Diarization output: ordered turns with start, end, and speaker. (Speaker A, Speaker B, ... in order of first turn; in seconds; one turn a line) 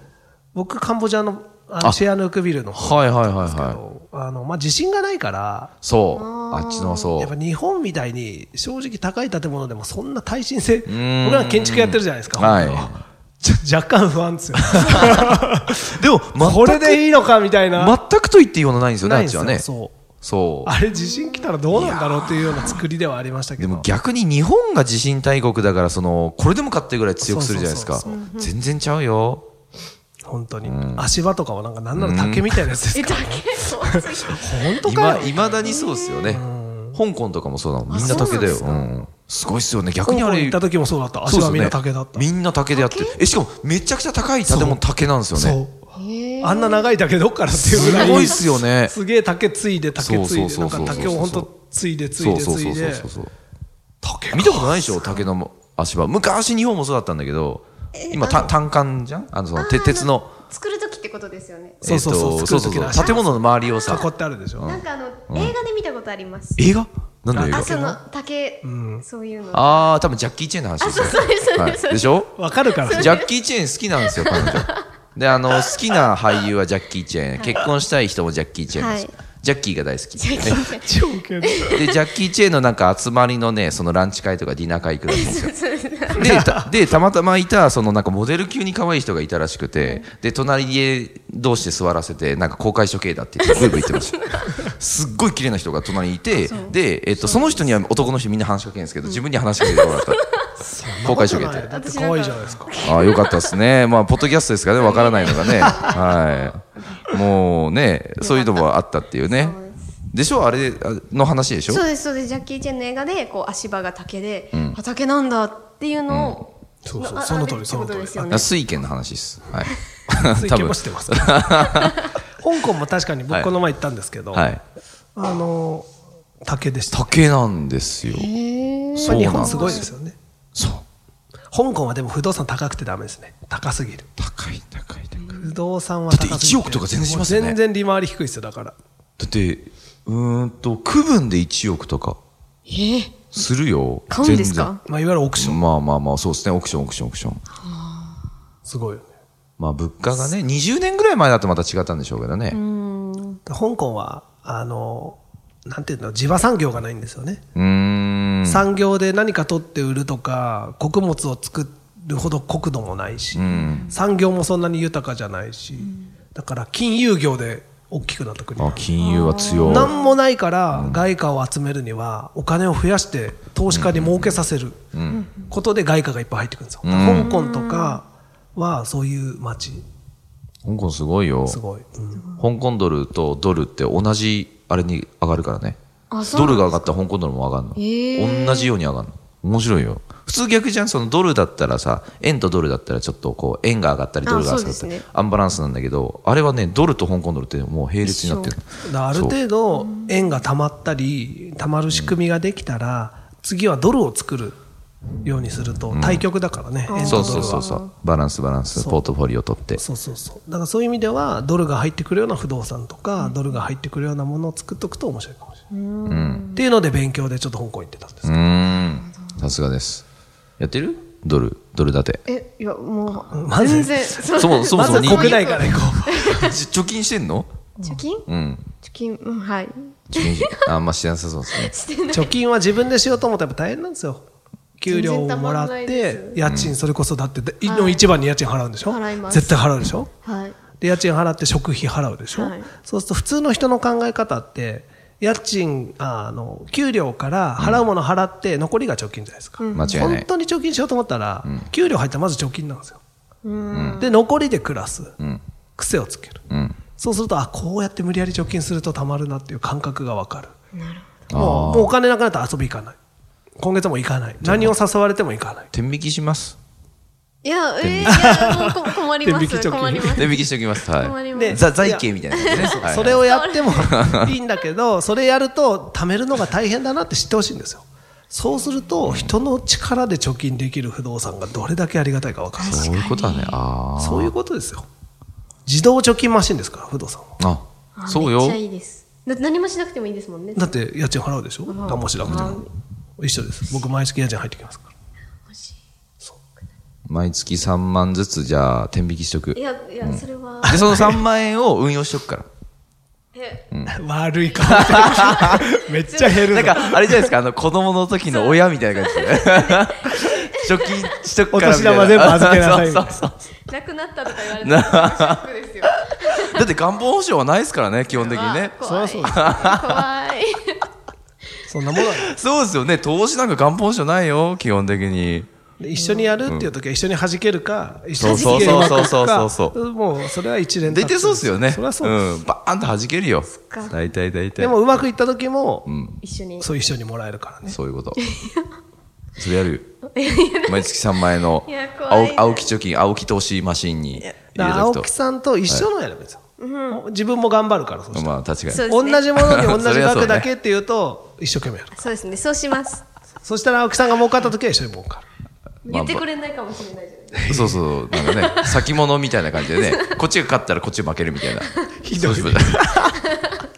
Speaker A: 0.5-5.7
Speaker B: 2.8-3.8
Speaker B: 5.8-7.3
Speaker C: 6.1-7.1
Speaker A: 7.2-18.0
Speaker B: 10.9-13.1
Speaker B: 14.7-17.0
Speaker B: 17.7-19.7
Speaker A: 19.0-20.0
Speaker B: 20.2-20.7
Speaker A: 20.6-23.9
Speaker C: 21.1-21.5
Speaker B: 21.7-22.8
Speaker B: 23.6-29.5
Speaker A: 27.2-28.2
Speaker C: 28.1-28.5
Speaker A: 30.2-35.7
Speaker B: 30.6-31.1
Speaker B: 31.9-32.6
Speaker C: 32.9-36.1
Speaker B: 34.8-40.6
Speaker A: 36.3-37.0
Speaker C: 37.9-38.7
Speaker A: 37.9-38.9
Speaker A: 40.0-42.3
Speaker B: 41.3-45.6
Speaker C: 42.7-43.2
Speaker A: 44.5-44.8
Speaker A: 45.3-45.8
Speaker C: 45.9-46.9
Speaker A: 46.4-53.1
Speaker B: 47.5-49.0
Speaker C: 47.8-48.3
Speaker B: 50.0-51.5
Speaker B: 52.2-53.3
Speaker A: 54.0-55.2
Speaker B: 54.3-60.4
Speaker C: 58.0-58.5
Speaker C: 59.5-61.8
Speaker B: 61.8-64.1
Speaker A: 61.8-63.2
Speaker C: 62.9-64.0
Speaker A: 63.9-64.7
Speaker B: 64.6-65.6
Speaker C: 64.6-66.6
Speaker B: 66.6-67.7
Speaker A: 67.3-68.0
Speaker C: 67.4-70.0
Speaker A: 68.6-69.0
Speaker B: 69.5-72.3
Speaker C: 70.8-73.3
Speaker A: 72.3-73.2
Speaker B: 72.9-80.7
Speaker C: 74.0-74.8
Speaker C: 77.4-77.6
Speaker C: 78.8-79.2
Speaker C: 80.2-80.9
Speaker A: 80.5-81.9
Speaker C: 81.4-81.8
Speaker B: 81.7-85.5
Speaker C: 85.1-86.3
Speaker B: 86.2-100.2
Speaker A: 86.2-86.7
Speaker C: 89.8-90.1
Speaker C: 93.5-94.5
Speaker C: 96.4-97.7
Speaker C: 99.0-100.4
Speaker A: 100.6-102.7
Speaker B: 101.0-101.7
Speaker C: 101.0-103.5
Speaker B: 102.8-109.6
Speaker C: 104.8-107.2
Speaker C: 108.2-108.7
Speaker C: 109.2-109.9
Speaker B: 110.1-111.8
Speaker C: 111.7-118.5
Speaker B: 114.5-114.8
Speaker B: 116.1-116.4
Speaker A: 116.8-118.5
Speaker B: 118.3-122.0
Speaker A: 120.3-121.5
Speaker A: 122.4-124.5
Speaker B: 124.3-124.6
Speaker A: 125.2-125.9
Speaker A: 126.4-127.2
Speaker B: 126.9-128.3
Speaker C: 128.1-129.9
Speaker A: 129.0-130.2
Speaker B: 129.0-129.9
Speaker B: 130.6-130.8
Speaker A: 131.5-134.1
Speaker B: 134.2-135.3
Speaker C: 135.2-135.5
Speaker A: 135.3-138.8
Speaker B: 136.1-137.6
Speaker B: 139.2-142.2
Speaker C: 142.7-143.3
Speaker B: 143.3-144.7
Speaker C: 144.1-144.8
Speaker A: 144.9-145.6
Speaker B: 145.4-147.4
Speaker C: 147.6-148.2
Speaker A: 148.6-149.1
Speaker B: 149.6-152.6
Speaker C: 152.5-153.4
Speaker A: 153.5-157.4
Speaker B: 157.6-158.7
Speaker A: 158.5-168.9
Speaker B: 163.3-163.9
Speaker B: 168.6-169.9
Speaker C: 169.0-170.1
Speaker A: 169.6-174.8
Speaker B: 170.7-171.0
Speaker B: 173.7-175.2
Speaker C: 175.1-175.5
Speaker A: 175.5-179.8
Speaker B: 176.8-177.3
Speaker C: 177.0-178.0
Speaker B: 180.6-181.6
Speaker A: 181.5-182.2
Speaker B: 182.4-185.8
Speaker C: 186.1-186.9
Speaker B: 186.3-199.3
Speaker C: 187.8-188.7
Speaker C: 194.2-195.0
Speaker C: 198.0-198.6
Speaker A: 198.8-204.6
Speaker C: 199.7-200.4
Speaker B: 201.9-202.2
Speaker A: 205.2-207.7
Speaker B: 205.9-206.2
Speaker C: 206.9-207.9
Speaker B: 207.0-209.8
Speaker A: 208.8-209.0
Speaker A: 209.8-215.6
Speaker C: 215.7-216.6
Speaker B: 216.1-216.5
Speaker A: 216.6-218.4
Speaker B: 218.2-220.1
Speaker B: 220.6-222.2
Speaker C: 222.3-226.6
Speaker A: 223.3-226.5
Speaker B: 224.4-225.4
Speaker B: 226.2-227.5
Speaker C: 227.8-228.3
Speaker B: 228.3-228.7
Speaker C: 228.8-230.6
Speaker B: 230.1-231.7
Speaker C: 231.5-232.3
Speaker A: 232.1-234.3
Speaker A: 234.8-240.1
Speaker C: 234.9-236.4
Speaker B: 236.4-236.8
Speaker C: 237.6-238.1
Speaker C: 238.9-239.7
Speaker C: 240.2-240.6
Speaker A: 240.8-253.0
Speaker C: 242.3-242.7
Speaker B: 247.6-247.8
Speaker C: 249.6-250.1
Speaker B: 249.7-250.3
Speaker C: 253.4-254.2
Speaker B: 253.7-254.1
Speaker A: 254.0-255.2
Speaker A: 255.8-256.4
Speaker B: 256.5-256.8
Speaker A: 257.0-260.5
Speaker C: 260.8-261.3
Speaker B: 261.3-261.9
Speaker A: 261.3-263.0
Speaker A: 263.6-265.7
Speaker B: 264.4-264.8
Speaker B: 265.7-266.6
Speaker C: 267.4-271.6
Speaker B: 267.8-268.4
Speaker A: 268.1-270.4
Speaker B: 270.2-273.3
Speaker A: 271.3-283.0
Speaker C: 272.3-274.1
Speaker B: 273.9-274.2
Speaker B: 279.0-279.3
Speaker C: 282.6-283.6
Speaker B: 282.6-284.3
Speaker A: 284.0-284.9
Speaker A: 285.7-287.4
Speaker B: 287.4-288.6
Speaker C: 288.0-290.8
Speaker A: 290.6-292.7
Speaker C: 291.7-292.7
Speaker B: 292.2-292.6
Speaker A: 293.2-294.9
Speaker C: 295.5-295.8
Speaker B: 297.1-302.5
Speaker C: 299.5-300.9
Speaker A: 300.6-301.2
Speaker C: 303.4-303.6
Speaker B: 303.7-304.0
Speaker A: 303.9-307.3
Speaker C: 304.5-306.5
Speaker B: 304.7-305.7
Speaker B: 306.4-313.4
Speaker C: 308.3-311.2
Speaker A: 311.5-313.2
Speaker C: 313.7-316.6
Speaker B: 314.5-320.0
Speaker C: 318.2-320.9
Speaker A: 318.8-319.5
Speaker A: 321.6-322.3
Speaker B: 322.0-325.5
Speaker A: 325.8-332.2
Speaker C: 325.9-326.4
Speaker B: 326.5-326.7
Speaker B: 328.2-329.8
Speaker C: 328.2-329.1
Speaker B: 330.9-335.0
Speaker C: 333.5-334.0
Speaker A: 334.6-335.9
Speaker B: 335.9-336.2
Speaker C: 336.2-336.7
Speaker A: 336.6-337.8
Speaker B: 337.7-338.2
Speaker C: 338.2-338.7
Speaker B: 339.4-339.9
Speaker C: 340.1-342.7
Speaker B: 340.7-345.1
Speaker A: 344.6-348.3
Speaker C: 346.6-347.0
Speaker B: 348.1-350.5
Speaker C: 348.7-349.4
Speaker A: 348.9-351.9
Speaker C: 351.9-353.0
Speaker A: 353.4-355.2
Speaker C: 355.9-357.5
Speaker B: 355.9-356.2
Speaker A: 357.3-357.8
Speaker B: 357.5-362.9
Speaker C: 358.1-358.8
Speaker C: 359.6-360.1
Speaker A: 362.0-363.3
Speaker C: 363.3-363.6